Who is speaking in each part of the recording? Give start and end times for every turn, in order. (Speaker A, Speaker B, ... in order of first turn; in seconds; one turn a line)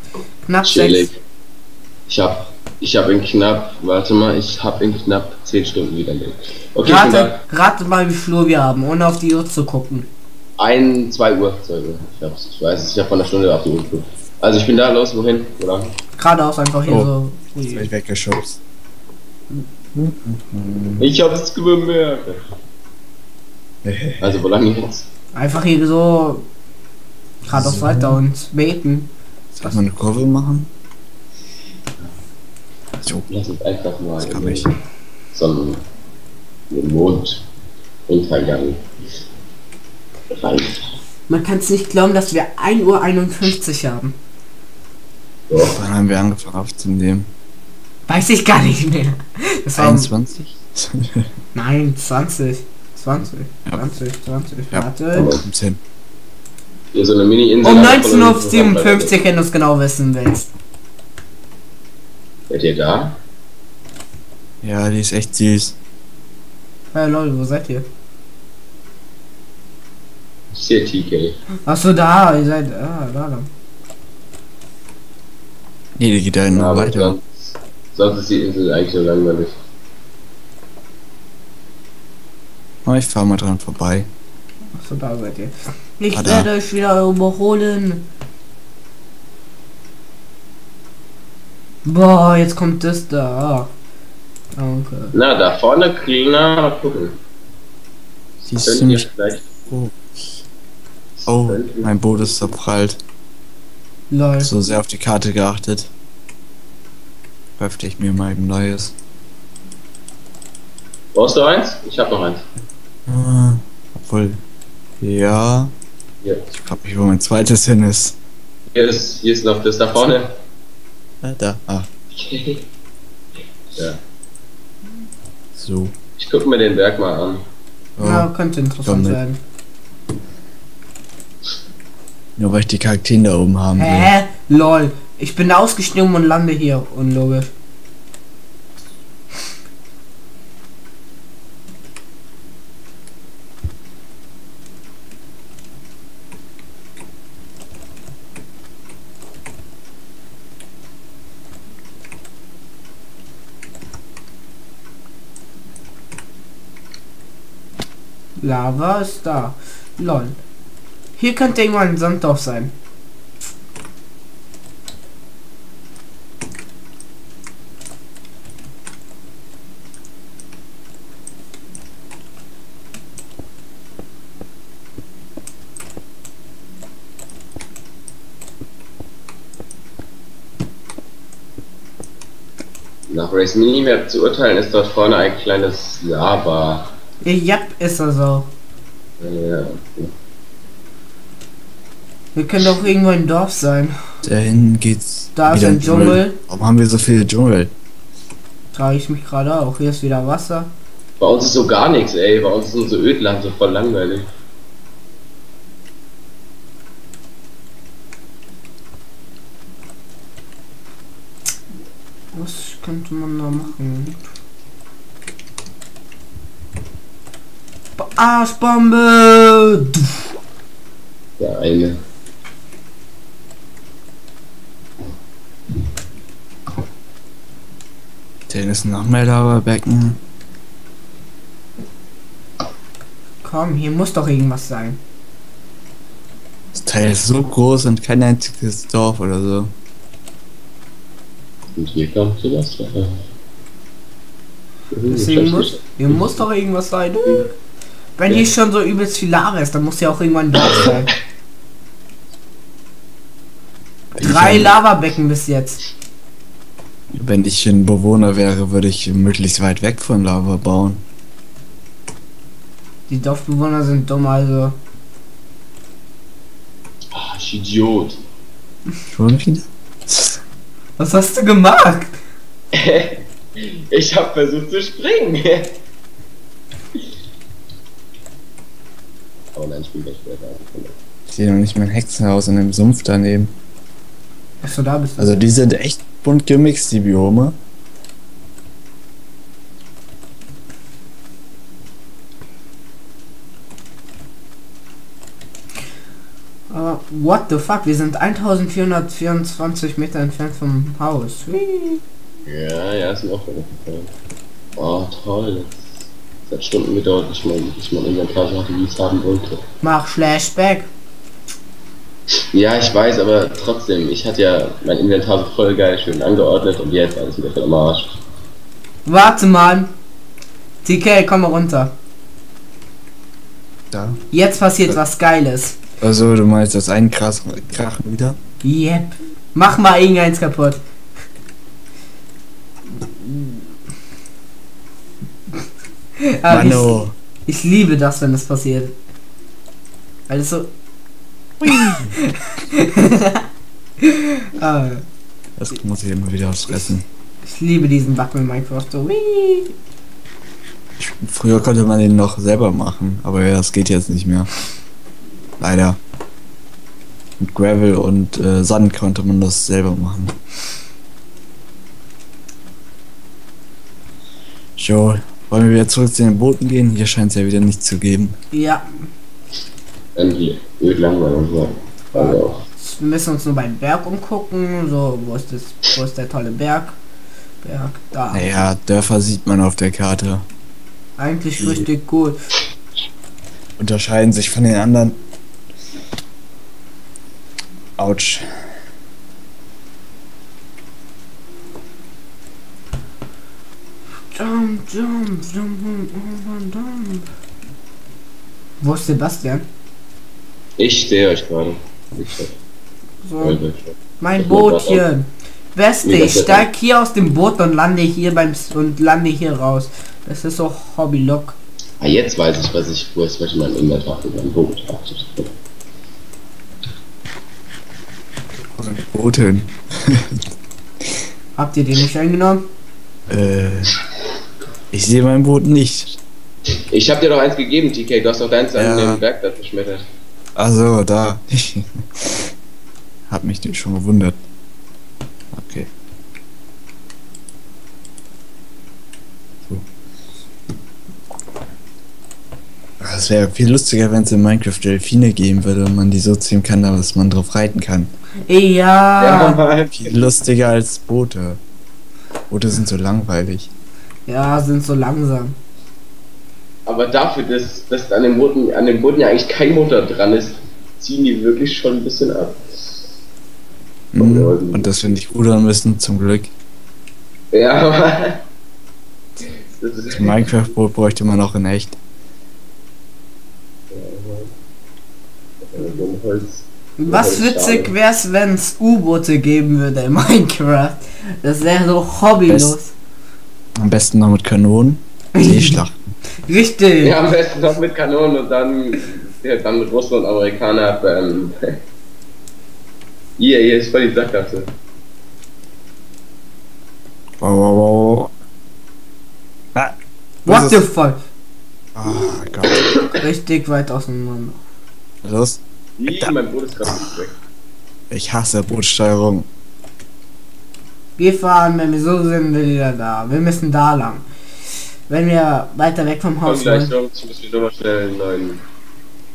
Speaker A: 0.5-1.1
Speaker B: 0.6-1.1
Speaker B: 2.1-7.4
Speaker A: 6.8-10.1
Speaker B: 10.6-15.9
Speaker A: 16.2-17.9
Speaker C: 17.6-18.6
Speaker C: 19.9-21.1
Speaker B: 21.0-22.4
Speaker C: 23.8-24.4
Speaker B: 24.2-25.1
Speaker A: 25.3-26.5
Speaker A: 27.4-29.1
Speaker C: 27.5-28.2
Speaker C: 29.6-30.7
Speaker B: 33.3-34.8
Speaker C: 34.2-34.7
Speaker B: 35.3-35.8
Speaker B: 36.7-37.4
Speaker B: 38.1-38.8
Speaker B: 40.3-40.9
Speaker A: 41.3-44.2
Speaker B: 45.5-45.8
Speaker C: 45.6-47.3
Speaker A: 48.1-50.1
Speaker C: 49.8-51.3
Speaker A: 51.5-55.3
Speaker C: 54.7-55.8
Speaker B: 55.1-55.4
Speaker B: 56.9-59.2
Speaker A: 57.6-60.5
Speaker B: 62.5-63.2
Speaker C: 64.6-65.8
Speaker A: 66.9-67.9
Speaker B: 70.5-71.3
Speaker A: 71.7-73.5
Speaker C: 76.0-77.2
Speaker B: 76.5-79.5
Speaker C: 82.8-84.1
Speaker A: 84.8-88.1
Speaker C: 86.1-86.5
Speaker A: 91.8-93.7
Speaker A: 94.6-95.1
Speaker B: 95.1-97.2
Speaker C: 98.5-99.1
Speaker B: 98.5-99.5
Speaker C: 99.7-100.4
Speaker B: 101.2-101.9
Speaker C: 101.3-103.0
Speaker A: 104.1-104.5
Speaker C: 104.4-105.9
Speaker C: 107.6-109.0
Speaker B: 111.1-112.4
Speaker C: 113.1-114.4
Speaker C: 115.0-115.7
Speaker C: 116.5-118.2
Speaker B: 118.7-120.4
Speaker C: 121.2-121.9
Speaker B: 122.1-122.7
Speaker C: 125.5-126.0
Speaker B: 126.2-127.4
Speaker C: 128.0-128.3
Speaker A: 128.0-129.4
Speaker C: 128.8-129.2
Speaker C: 132.4-134.1
Speaker A: 133.8-137.5
Speaker A: 158.4-160.4
Speaker A: 161.2-162.8
Speaker B: 183.1-186.9
Speaker A: 187.2-188.5
Speaker B: 189.2-190.1
Speaker A: 192.3-193.9
Speaker C: 194.2-197.7
Speaker A: 195.4-196.4
Speaker A: 198.7-200.7
Speaker B: 201.2-204.3
Speaker A: 212.3-214.2
Speaker A: 218.0-220.2
Speaker B: 221.4-222.0
Speaker C: 228.5-230.2
Speaker A: 233.4-235.0
Speaker C: 236.7-239.7
Speaker B: 241.7-243.2
Speaker B: 244.9-246.4
Speaker A: 245.1-247.6
Speaker A: 248.2-251.1
Speaker B: 248.3-248.5
Speaker B: 250.7-251.0
Speaker C: 254.2-254.8
Speaker A: 254.2-255.8
Speaker C: 257.1-261.0
Speaker A: 263.1-264.8
Speaker B: 267.1-268.2
Speaker C: 269.1-270.4
Speaker A: 271.0-272.2
Speaker B: 272.7-275.8
Speaker B: 279.6-281.0
Speaker C: 281.3-283.5
Speaker A: 284.6-285.4
Speaker C: 285.2-287.6
Speaker A: 296.7-302.0
Speaker B: 302.5-304.1
Speaker B: 304.8-309.6
Speaker A: 309.8-310.9
Speaker B: 312.5-318.2
Speaker A: 319.1-319.9
Speaker A: 320.8-322.0
Speaker C: 323.9-324.2
Speaker A: 324.3-325.8
Speaker C: 326.0-328.4
Speaker A: 328.6-330.8
Speaker A: 333.0-333.7
Speaker A: 336.4-336.9
Speaker C: 336.5-337.1
Speaker A: 337.5-339.0
Speaker A: 340.3-340.7
Speaker C: 341.6-342.1
Speaker A: 341.7-342.2
Speaker A: 342.7-343.4
Speaker A: 344.0-345.1
Speaker C: 345.6-347.1
Speaker A: 346.7-349.7
Speaker C: 351.0-354.5
Speaker C: 355.6-356.0
Speaker C: 357.4-360.4
Speaker C: 364.8-368.4
Speaker A: 368.5-368.9
Speaker B: 370.2-372.6
Speaker A: 372.1-377.0
Speaker A: 377.6-378.5
Speaker C: 378.3-380.5
Speaker A: 381.2-382.4
Speaker C: 383.8-385.2
Speaker C: 388.0-388.7
Speaker A: 394.3-397.3
Speaker A: 398.8-399.7
Speaker B: 400.8-402.6
Speaker A: 403.2-403.6
Speaker B: 403.4-405.0
Speaker A: 404.2-411.6
Speaker B: 406.0-406.7
Speaker B: 412.0-415.5
Speaker C: 418.7-420.4
Speaker A: 421.6-422.7
Speaker C: 423.3-423.9
Speaker C: 424.9-426.2
Speaker B: 426.9-430.0
Speaker C: 428.8-429.2
Speaker C: 430.6-432.5
Speaker C: 433.3-434.4
Speaker C: 435.5-435.9
Speaker C: 443.0-448.1
Speaker A: 448.5-449.6
Speaker B: 449.2-450.1
Speaker C: 449.9-451.6
Speaker C: 452.5-453.7
Speaker A: 454.3-455.6
Speaker B: 456.9-462.6
Speaker C: 464.1-466.5
Speaker B: 464.2-464.9
Speaker B: 467.5-468.4
Speaker B: 469.7-470.5
Speaker C: 470.1-472.0
Speaker B: 473.9-474.5
Speaker B: 475.6-477.9
Speaker A: 477.0-482.9
Speaker C: 482.5-482.8
Speaker C: 483.8-486.1
Speaker A: 485.4-485.8
Speaker A: 486.5-487.2
Speaker B: 487.0-491.8
Speaker B: 493.4-494.7
Speaker C: 497.4-498.3
Speaker C: 499.8-500.9
Speaker A: 500.4-501.2
Speaker C: 501.9-502.8
Speaker B: 502.2-503.0
Speaker A: 503.1-504.6
Speaker C: 505.2-506.3
Speaker B: 506.0-507.4
Speaker C: 508.1-509.5
Speaker A: 511.2-514.3
Speaker A: 515.1-516.9
Speaker B: 516.4-518.6